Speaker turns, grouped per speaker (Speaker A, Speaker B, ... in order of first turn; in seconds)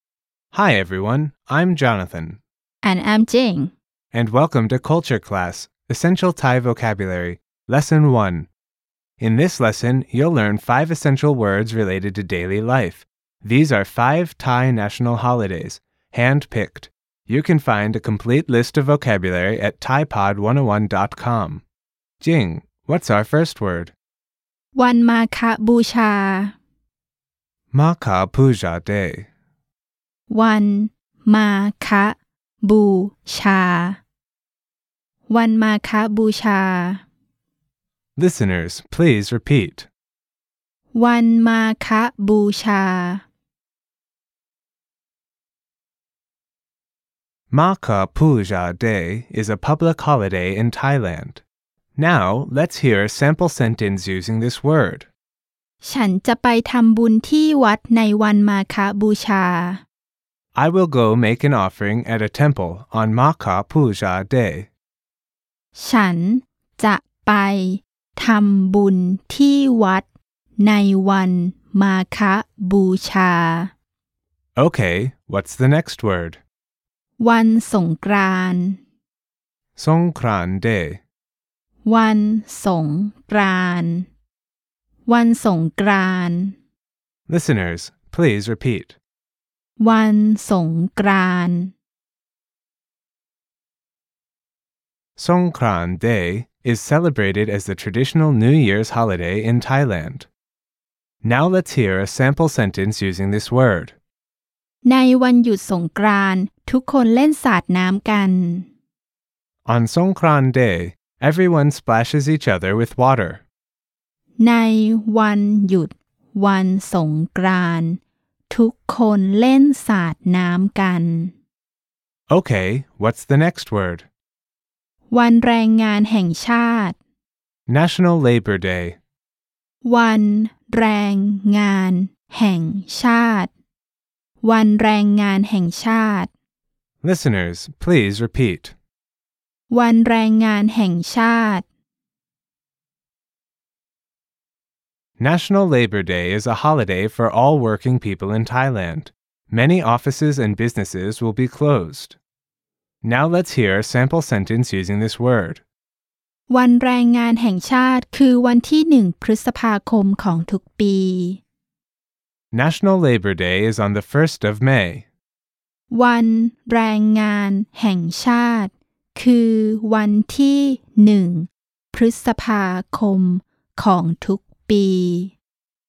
Speaker A: 0.5-2.4, 4.1-8.5, 9.2-21.6, 22.2-23.9, 27.7-29.3, 38.1-39.9, 47.5-51.4, 52.0-55.1, 60.5-64.7, 74.6-76.4, 79.8-81.0, 87.3-89.0, 95.2-100.3, 101.2-104.0, 109.7-113.4, 122.3-124.1, 127.7-129.0, 137.0-138.7, 145.2-152.2, 153.0-155.6, 162.5-165.0
Speaker B: 2.8-3.7, 24.7-26.5, 30.3-34.0, 35.3-37.0, 40.9-43.2, 55.8-59.8, 65.7-70.0, 70.6-73.7, 77.2-78.8, 81.8-84.1, 85.0-86.5, 89.8-91.7, 104.8-108.7, 114.4-121.3, 125.1-127.0, 129.8-133.5, 134.4-136.3, 139.7-141.7, 156.5-161.4, 165.9-175.3